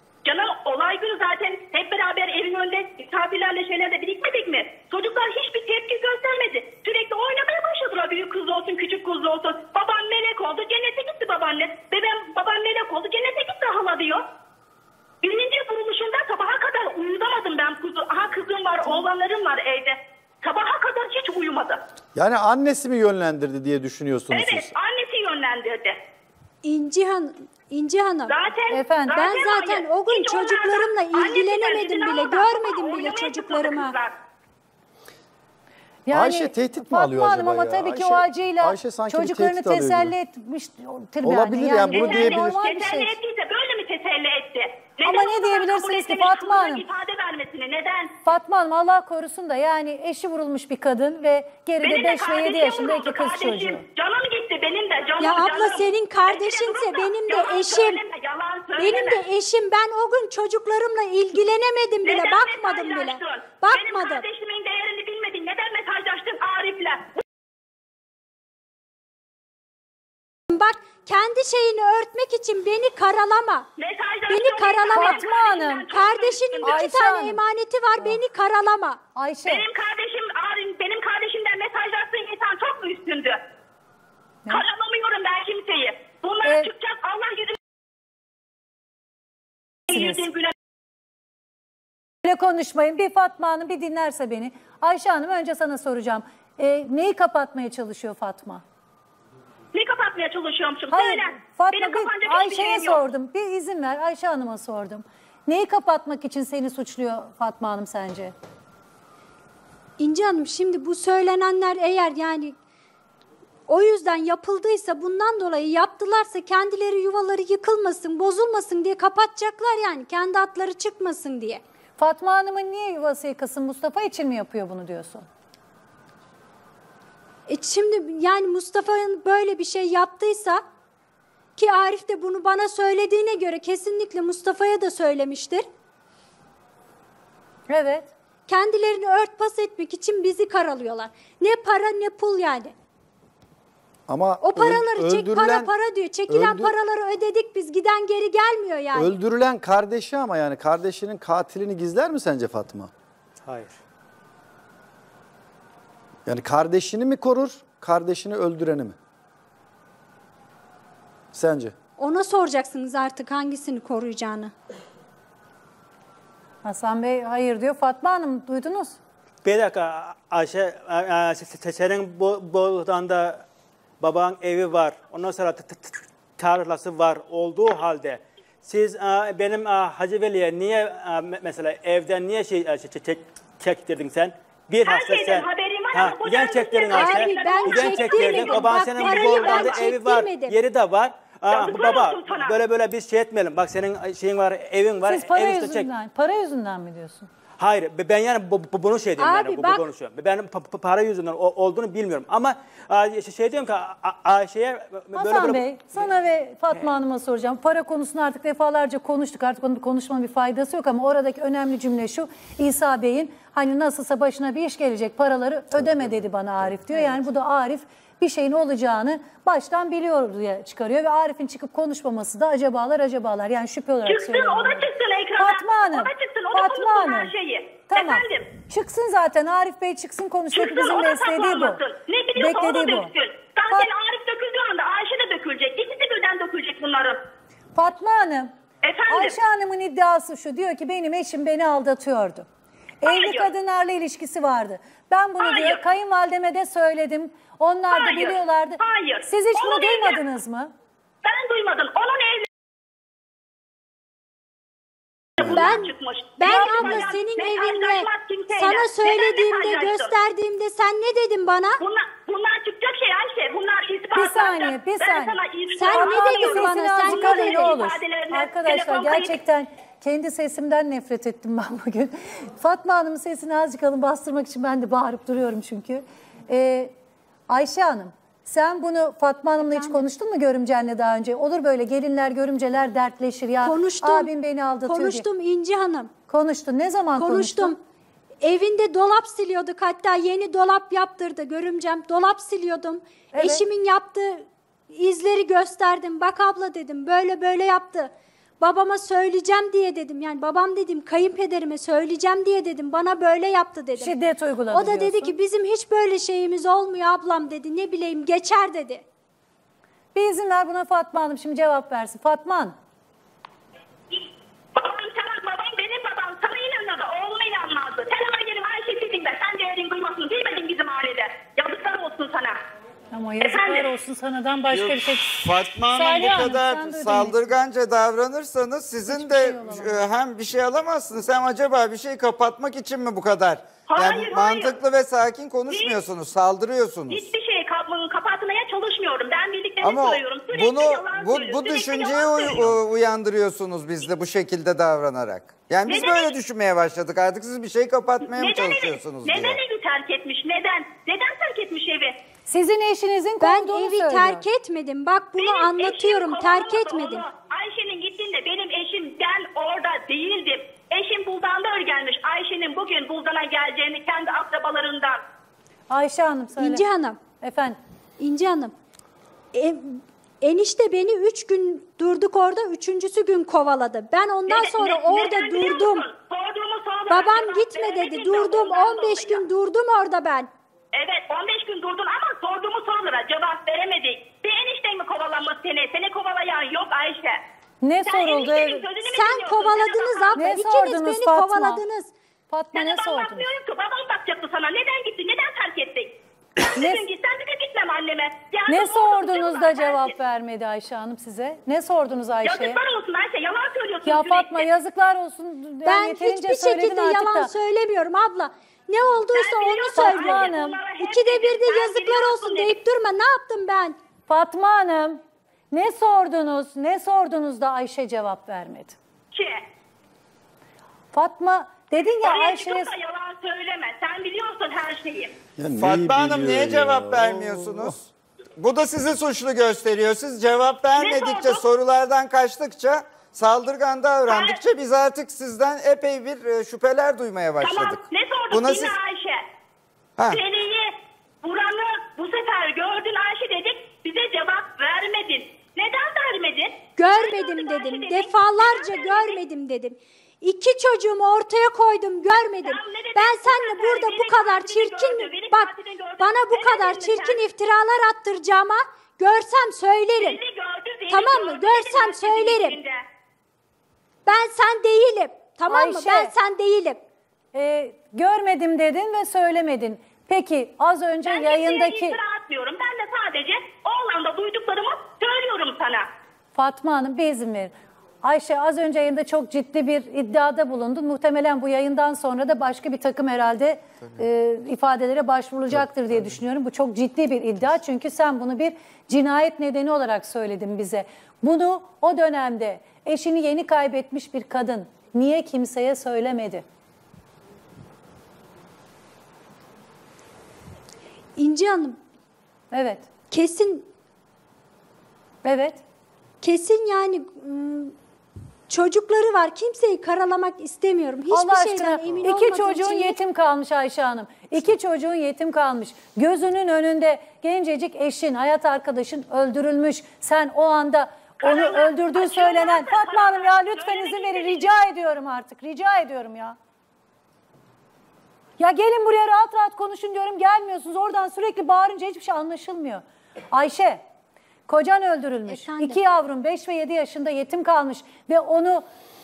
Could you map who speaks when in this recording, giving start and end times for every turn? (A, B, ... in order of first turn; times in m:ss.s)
0:00.2-0:14.2 A
0:15.2-0:21.8 A
0:22.1-0:24.7 B
0:24.3-0:26.0 A
0:26.6-0:28.4 C
0:28.3-0:34.2 A
0:28.7-0:29.2 D
0:29.1-0:33.9 C
0:36.0-0:43.1 D
0:36.1-0:40.1 B
0:41.2-0:42.6 B
0:41.9-0:48.2 A
0:45.0-0:46.8 D
0:48.2-0:53.8 D
0:51.8-0:59.2 A
0:55.2-0:58.0 C
0:58.8-1:04.2 C
1:02.0-1:07.1 A
1:10.5-1:13.7 C
1:13.8-1:16.9 A
1:14.3-1:15.2 C
1:14.9-1:15.9 D
1:15.9-1:19.0 C
1:16.6-1:17.4 D
1:19.1-1:19.6 D
1:19.4-1:23.4 A
1:24.5-1:27.6 A
1:26.4-1:26.7 D
1:29.9-1:30.5 A
1:29.9-1:30.2 D
1:32.2-1:38.6 D
1:39.7-1:43.0 A
1:40.9-1:48.3 D
1:50.0-1:52.5 C
1:53.7-2:01.6 C
2:02.0-2:05.2 D
2:07.5-2:10.6 C
2:11.6-2:15.6 C
2:17.7-2:18.1 D
2:18.5-2:22.7 C
2:24.1-2:25.7 B
2:24.4-2:29.2 C
2:26.3-2:26.7 B
2:28.9-2:32.9 B
2:33.4-2:33.8 E
2:36.2-2:39.0 B
2:41.3-2:41.7 B
2:42.0-2:44.5 C
2:46.6-2:49.0 D
2:49.4-2:53.4 E
2:54.0-3:15.9 E
3:04.8-3:09.9 A
3:06.9-3:10.6 C
3:11.5-3:12.6 A
3:15.0-3:17.3 D
3:17.6-3:26.1 E
3:19.2-3:19.8 C
3:25.1-3:47.3 D
3:44.0-3:48.5 A
3:47.9-3:51.8 D
3:50.5-3:57.2 A
3:52.4-3:53.1 D
3:57.7-3:58.5 D
3:58.8-3:59.4 A
3:59.1-4:02.4 D
4:03.0-4:10.7 D
4:03.0-4:03.5 A
4:05.4-4:05.8 A
4:07.9-4:10.2 A
4:11.2-4:12.5 A
4:15.4-4:20.1 A
4:15.4-4:21.8 C
4:16.5-4:17.0 D
4:21.8-4:29.4 A
4:24.1-4:25.4 D
4:25.8-4:27.8 C
4:25.9-4:36.9 D
4:37.5-4:45.2 D
4:39.6-4:40.0 C
4:43.6-4:44.3 C
4:44.9-4:46.1 C
4:46.3-4:47.7 D
4:47.2-4:47.8 C
4:48.4-5:04.1 C
4:53.3-4:53.6 D
5:04.0-5:05.3 D
5:04.7-5:09.0 C
5:10.1-5:12.7 D
5:14.7-5:22.6 A
5:23.1-5:27.4 D
5:23.4-5:23.9 A
5:24.7-5:37.3 F
5:29.1-5:30.0 D
5:33.9-5:34.8 A
5:35.7-5:36.0 A
5:37.1-5:42.7 A
5:39.8-5:49.6 F
5:45.8-5:46.3 A
5:48.2-5:52.2 A
5:52.5-5:54.4 D
5:53.4-5:57.2 C
5:55.4-6:05.2 A
6:05.9-6:06.8 D
6:06.6-6:07.2 C
6:07.4-6:07.8 D
6:08.2-6:08.7 C
6:09.5-6:16.1 C
6:14.5-6:19.4 A
6:17.1-6:20.5 C
6:20.9-6:27.4 A
6:27.8-6:28.9 D
6:28.0-6:30.6 A
6:29.1-6:32.1 C
6:30.4-6:31.8 D
6:32.5-6:33.5 D
6:32.7-6:40.1 A
6:36.7-6:37.0 D
6:38.7-6:42.8 D
6:42.4-6:44.7 A
6:44.0-6:47.5 D
6:45.8-6:50.5 C
6:49.3-6:52.8 A
6:49.9-6:50.8 D
6:51.0-6:54.0 C
6:54.3-6:59.0 D
6:59.3-6:59.6 A
7:01.1-7:02.9 D
7:02.0-7:05.4 A
7:05.6-7:07.9 B
7:05.8-7:19.0 F
7:10.9-7:11.7 A
7:14.3-7:14.6 A
7:17.6-7:19.4 A
7:20.2-7:20.4 F
7:20.2-7:29.4 A
7:27.0-7:40.4 C
7:32.3-7:37.4 A
7:40.2-7:43.0 A
7:41.1-7:42.8 C
7:44.2-7:47.0 C
7:45.7-7:46.3 D
7:47.5-7:52.2 D
7:51.2-7:56.1 A
7:56.5-8:16.6 D
8:21.4-8:22.0 C
8:22.7-8:23.1 D
8:23.3-8:23.9 C
8:25.4-8:25.8 D
8:26.4-8:27.9 C
8:28.7-8:33.2 C
8:31.3-8:46.6 D
8:41.4-8:44.7 A
8:48.6-8:54.0 D
8:54.7-8:58.8 D
8:55.5-8:56.0 C